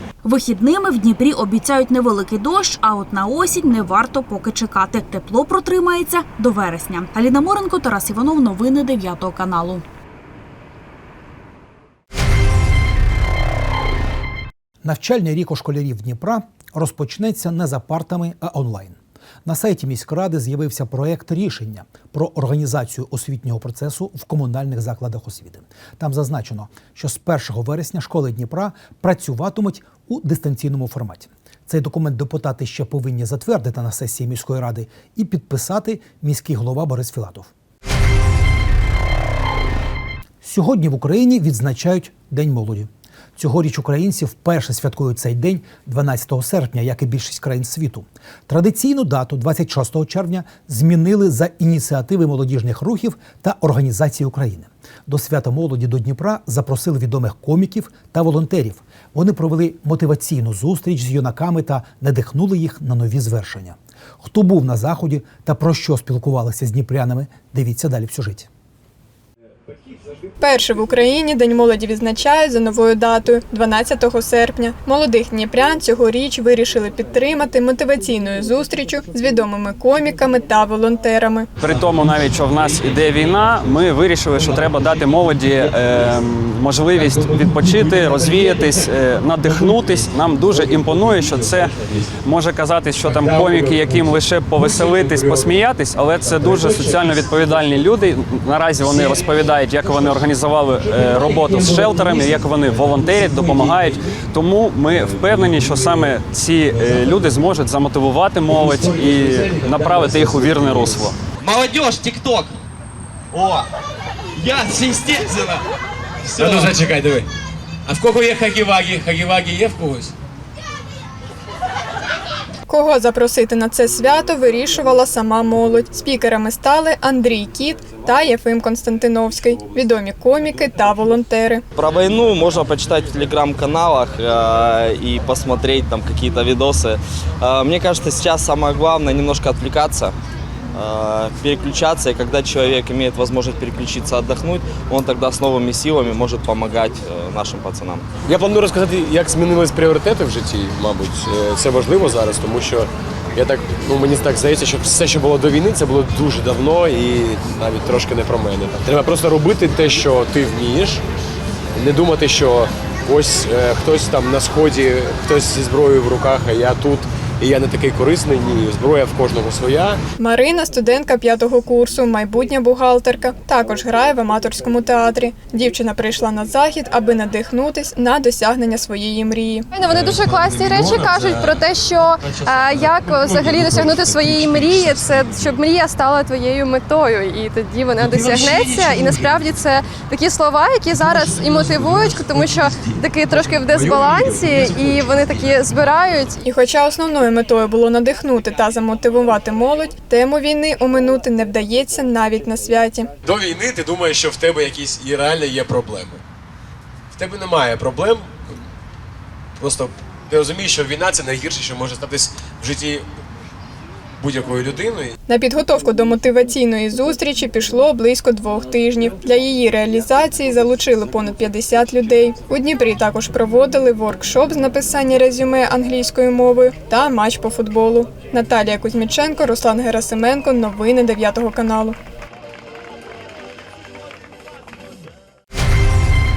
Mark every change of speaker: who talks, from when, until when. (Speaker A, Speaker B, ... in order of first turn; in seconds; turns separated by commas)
Speaker A: 0.2-9.8, Speaker B: 14.8-37.5, Speaker B: 40.4-68.5, Speaker C: 70.4-81.5, Speaker D: 81.6-111.2, Speaker E: 93.2-93.6, Speaker E: 95.0-95.4, Speaker F: 111.4-112.5, Speaker F: 114.4-115.5, Speaker E: 116.3-117.3, Speaker F: 116.4-116.7, Speaker E: 117.8-120.1, Speaker C: 122.7-131.6, Speaker G: 131.7-140.1, Speaker G: 140.7-148.0, Speaker E: 148.2-161.0, Speaker E: 161.8-170.0, Speaker C: 170.2-179.6, Speaker H: 179.7-196.4, Speaker C: 196.4-203.1, Speaker E: 203.2-206.2, Speaker E: 207.1-208.4, Speaker E: 209.6-213.0, Speaker E: 214.2-215.1, Speaker C: 215.3-231.9